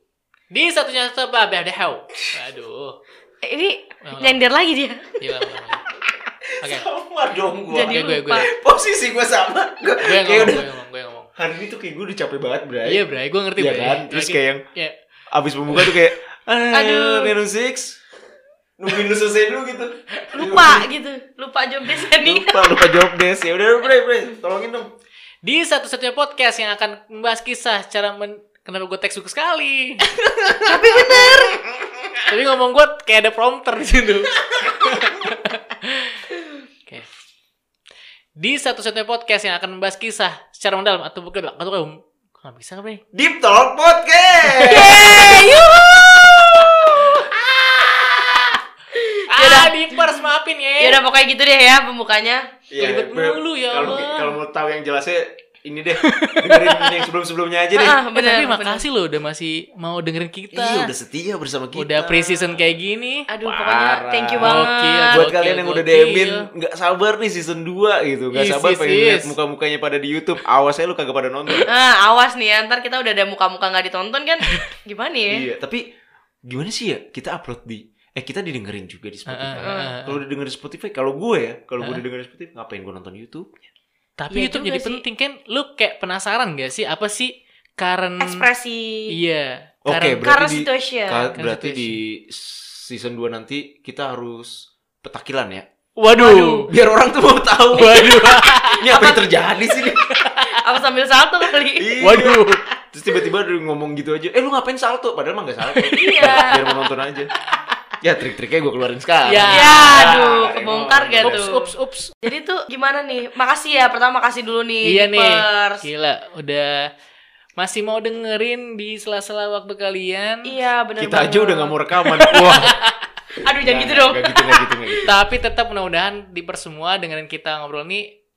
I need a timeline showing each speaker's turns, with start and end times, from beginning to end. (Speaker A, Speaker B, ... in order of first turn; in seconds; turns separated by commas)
Speaker A: 0.5-3.0, Speaker B: 3.4-5.3, Speaker A: 4.0-4.4, Speaker A: 5.2-5.8, Speaker C: 6.5-10.7, Speaker A: 6.6-6.8, Speaker B: 7.7-8.5, Speaker A: 7.8-8.5, Speaker A: 10.0-11.3, Speaker C: 11.4-13.0, Speaker A: 12.8-14.9, Speaker C: 13.6-14.6, Speaker C: 15.3-18.0, Speaker A: 15.7-16.0, Speaker B: 16.7-17.3, Speaker C: 18.8-20.9, Speaker B: 20.3-22.9, Speaker C: 22.2-24.9, Speaker A: 25.4-30.1, Speaker B: 30.6-31.6, Speaker C: 31.0-32.3, Speaker A: 32.3-36.3, Speaker C: 34.6-35.3, Speaker A: 38.4-43.0, Speaker C: 43.1-45.6, Speaker A: 44.6-45.6, Speaker B: 44.6-47.3, Speaker B: 47.9-48.1, Speaker B: 48.9-52.5, Speaker A: 49.3-51.0, Speaker C: 52.7-58.0, Speaker A: 52.8-54.3, Speaker A: 56.0-57.1, Speaker B: 57.7-58.8, Speaker A: 58.1-60.9, Speaker C: 60.5-62.8, Speaker A: 61.7-63.3, Speaker B: 63.3-65.3, Speaker C: 63.4-71.7, Speaker A: 64.4-66.5, Speaker A: 68.3-69.3, Speaker B: 71.7-75.4, Speaker C: 75.3-75.8, Speaker C: 76.5-83.7, Speaker A: 79.3-80.2, Speaker B: 79.6-79.9, Speaker A: 84.2-88.5, Speaker B: 84.3-85.0, Speaker B: 88.2-89.1, Speaker A: 89.1-90.2, Speaker C: 89.8-100.2, Speaker B: 90.2-91.3, Speaker A: 91.3-92.0, Speaker A: 96.0-96.7, Speaker A: 97.7-98.9, Speaker B: 98.8-99.2, Speaker A: 100.1-100.6, Speaker B: 100.4-101.9, Speaker C: 101.8-107.3, Speaker A: 102.0-102.6, Speaker A: 105.7-106.6, Speaker B: 105.9-106.6, Speaker C: 108.0-111.5, Speaker A: 109.2-110.2, Speaker B: 109.5-111.7, Speaker A: 111.2-112.1, Speaker B: 112.2-115.8, Speaker A: 114.8-116.9, Speaker A: 117.6-120.5, Speaker B: 120.4-121.7, Speaker C: 121.0-122.8, Speaker A: 122.1-122.9, Speaker B: 123.4-125.0, Speaker C: 123.6-125.1, Speaker A: 125.0-128.1